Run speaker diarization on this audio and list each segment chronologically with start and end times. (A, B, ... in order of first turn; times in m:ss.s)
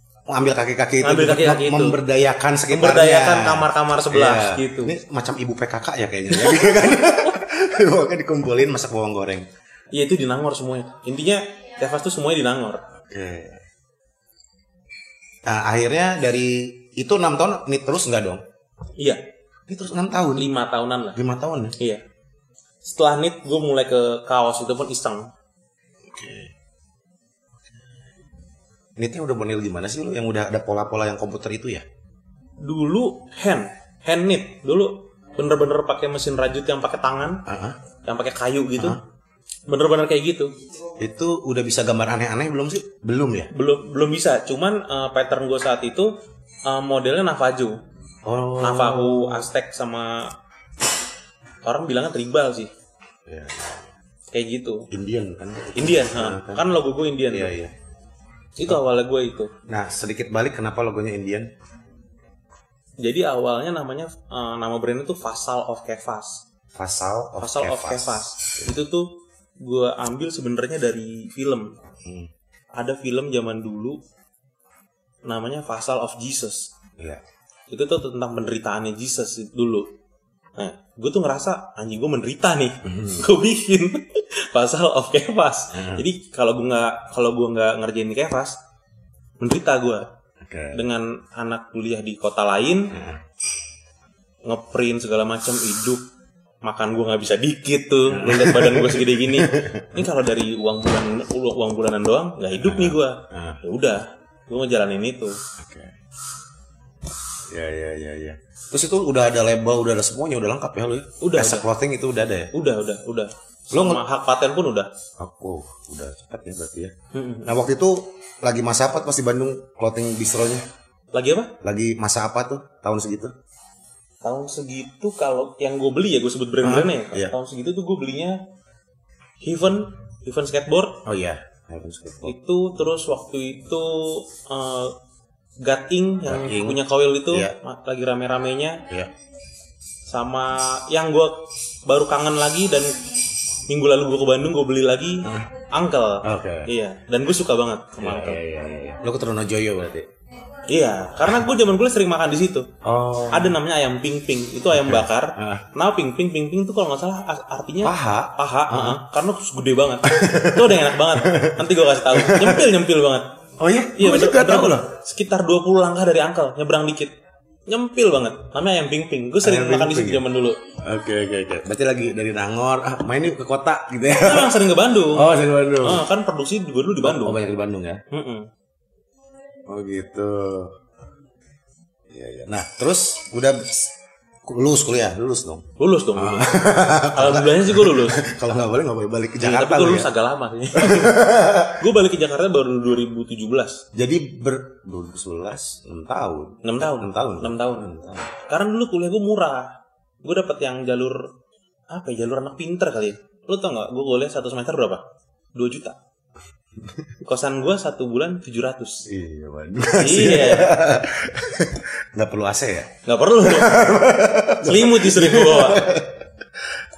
0:00.3-0:09.5 A
0:01.0-0:02.0 B
0:02.7-0:05.0 B
0:06.3-0:06.8 B
0:09.9-0:12.8 B
0:13.0-0:13.6 A
0:15.4-0:18.4 A
0:19.7-0:20.5 A
0:20.3-0:21.2 B
0:21.2-0:21.8 A
0:22.8-0:25.3 B
0:26.0-0:26.5 A
0:29.0-0:31.8 A
0:32.6-0:37.4 B
0:37.4-0:37.8 A
0:38.0-0:39.0 B
0:39.7-0:40.5 B
0:41.0-0:43.5 A
0:43.5-0:46.1 B
0:46.6-0:47.8 B
0:48.2-0:49.5 A
0:48.6-0:50.3 B
0:51.6-0:52.7 B
0:53.2-0:53.9 A
0:54.3-0:54.9 B
0:54.9-0:56.6 A
0:55.8-0:57.5 B
0:57.3-0:57.7 A
0:58.6-0:59.5 B
0:59.7-1:01.5 A
1:03.0-1:06.4 B
1:06.7-1:08.7 A
1:07.4-1:11.8 B
1:12.0-1:12.3 A
1:12.8-1:14.0 B
1:15.2-1:16.7 B
1:17.7-1:19.9 B
1:20.6-1:28.6 B
1:22.8-1:23.3 A
1:25.7-1:26.0 A
1:29.4-1:30.1 B
1:30.4-1:30.8 A
1:30.7-1:32.9 B
1:32.9-1:33.2 A
1:34.4-1:36.0 B
1:36.6-1:45.4 B
1:38.1-1:40.1 A
1:42.6-1:43.6 A
1:45.6-1:46.0 A
1:47.5-1:52.5 A
1:51.2-1:51.6 B
1:52.5-1:54.9 B
1:53.7-1:54.0 A
1:55.2-1:56.9 A
1:57.1-1:57.5 B
1:57.4-2:00.7 A
2:01.1-2:01.5 B
2:01.6-2:03.3 A
2:04.2-2:08.4 B
2:06.6-2:07.3 A
2:09.4-2:11.0 B
2:11.0-2:12.3 A
2:12.2-2:14.9 B
2:15.6-2:18.8 B
2:16.2-2:17.5 A
2:20.1-2:23.0 B
2:23.7-2:28.4 B
2:25.2-2:25.5 A
2:26.2-2:26.7 A
2:28.0-2:30.1 A
2:30.7-2:32.7 B
2:32.8-2:33.6 A
2:33.3-2:43.3 B
2:34.7-2:35.6 A
2:37.8-2:39.0 A
2:40.0-2:42.7 A
2:43.6-2:44.9 A
2:44.0-2:47.1 B
2:47.7-2:50.6 B
2:49.4-2:50.2 A
2:50.8-2:54.6 A
2:54.1-2:57.4 B
2:55.1-2:56.0 A
2:57.0-2:58.0 A
2:58.1-2:58.5 B
2:59.7-3:00.7 A
3:02.1-3:03.9 A
3:04.4-3:10.1 A
3:05.8-3:06.6 B
3:07.1-3:08.2 B
3:09.4-3:13.8 B
3:10.7-3:11.8 A
3:13.9-3:18.3 A
3:16.6-3:17.9 B
3:18.4-3:19.7 B
3:20.2-3:21.3 B
3:21.9-3:25.0 B
3:25.5-3:26.0 B
3:26.8-3:27.1 A
3:27.2-3:29.1 B
3:29.1-3:36.2 A
3:30.0-3:30.8 B
3:33.0-3:33.8 B
3:34.6-3:35.9 B